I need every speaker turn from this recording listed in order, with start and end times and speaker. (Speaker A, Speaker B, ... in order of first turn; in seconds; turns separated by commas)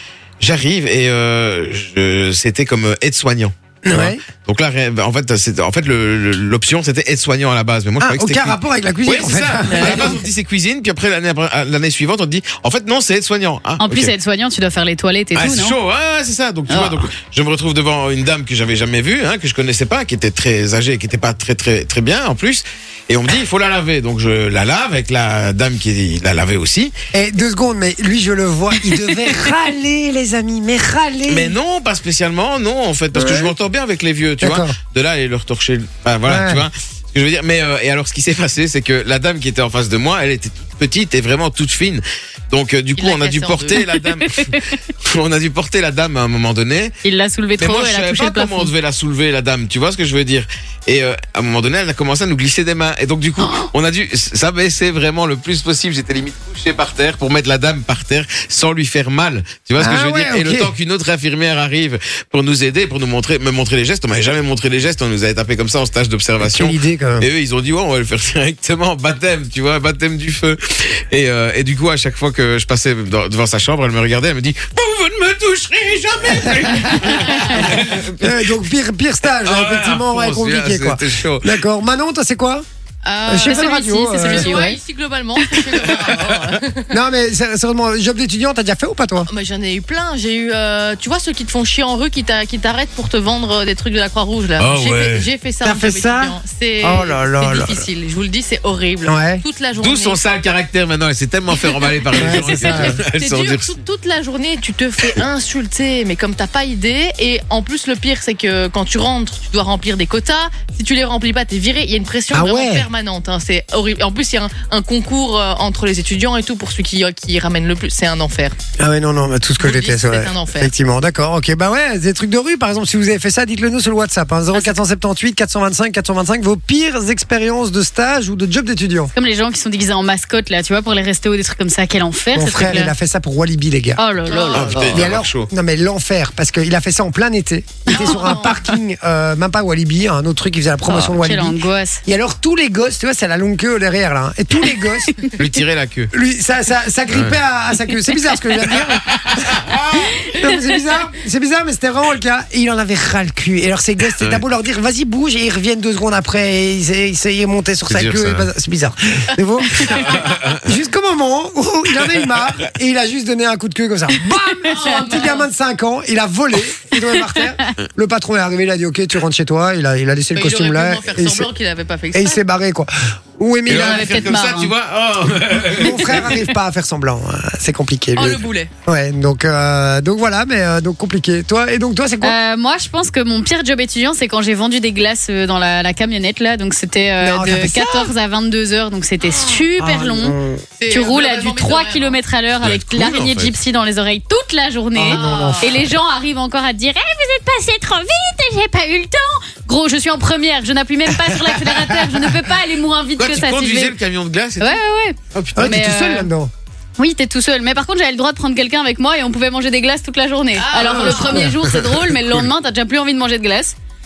Speaker A: 0.4-14.1, Speaker B: 3.8-4.2, Speaker B: 8.0-10.2, Speaker C: 9.7-10.0, Speaker C: 13.8-15.8, Speaker A: 15.3-26.9, Speaker C: 16.7-17.1, Speaker B: 27.1-31.5, Speaker A: 31.3-47.0, Speaker B: 33.1-33.5, Speaker B: 34.4-34.8, Speaker B: 36.2-36.6, Speaker D: 43.0-43.8, Speaker C: 44.2-44.5, Speaker C: 47.0-48.7, Speaker A: 47.6-78.5, Speaker C: 53.4-53.7, Speaker B: 59.8-60.7, Speaker B: 66.4-67.3, Speaker B: 76.3-82.7, Speaker A: 79.4-81.5, Speaker D: 83.0-87.0, Speaker B: 83.3-84.6, Speaker C: 83.4-84.8, Speaker A: 86.0-86.4, Speaker B: 86.9-89.3, Speaker D: 89.3-100.2, Speaker A: 94.6-95.3, Speaker B: 95.6-97.9, Speaker B: 99.0-99.4, Speaker A: 99.8-103.7, Speaker D: 101.5-118.5, Speaker B: 102.1-103.0, Speaker B: 112.3-112.9, Speaker B: 118.8-129.1, Speaker D: 119.6-120.7, Speaker C: 129.2-132.9, Speaker B: 132.3-134.0, Speaker C: 134.0-134.9, Speaker D: 134.3-135.0, Speaker A: 134.5-135.5, Speaker B: 134.7-145.1, Speaker C: 137.9-138.7, Speaker D: 137.9-138.6, Speaker C: 140.9-142.0, Speaker A: 145.4-146.1, Speaker B: 146.1-149.5, Speaker A: 147.1-147.4, Speaker A: 148.7-150.2, Speaker C: 150.3-150.6, Speaker B: 150.3-171.5, Speaker A: 157.9-158.5, Speaker A: 159.8-160.6, Speaker D: 164.6-165.5, Speaker C: 164.7-165.1, Speaker D: 170.3-172.4, Speaker B: 172.1-174.3, Speaker A: 173.7-176.4, Speaker C: 173.7-174.7, Speaker B: 175.7-182.3, Speaker D: 178.1-178.7, Speaker C: 182.2-190.3, Speaker B: 187.2-188.1, Speaker D: 189.2-189.6, Speaker B: 189.8-190.6, Speaker D: 190.8-192.2, Speaker C: 190.9-203.9, Speaker A: 192.6-193.5, Speaker B: 194.9-195.9, Speaker D: 195.1-195.8, Speaker A: 203.2-204.8, Speaker C: 204.6-206.3, Speaker A: 205.3-205.8, Speaker B: 205.5-206.5, Speaker C: 207.0-213.7, Speaker D: 210.6-211.5, Speaker B: 210.8-211.5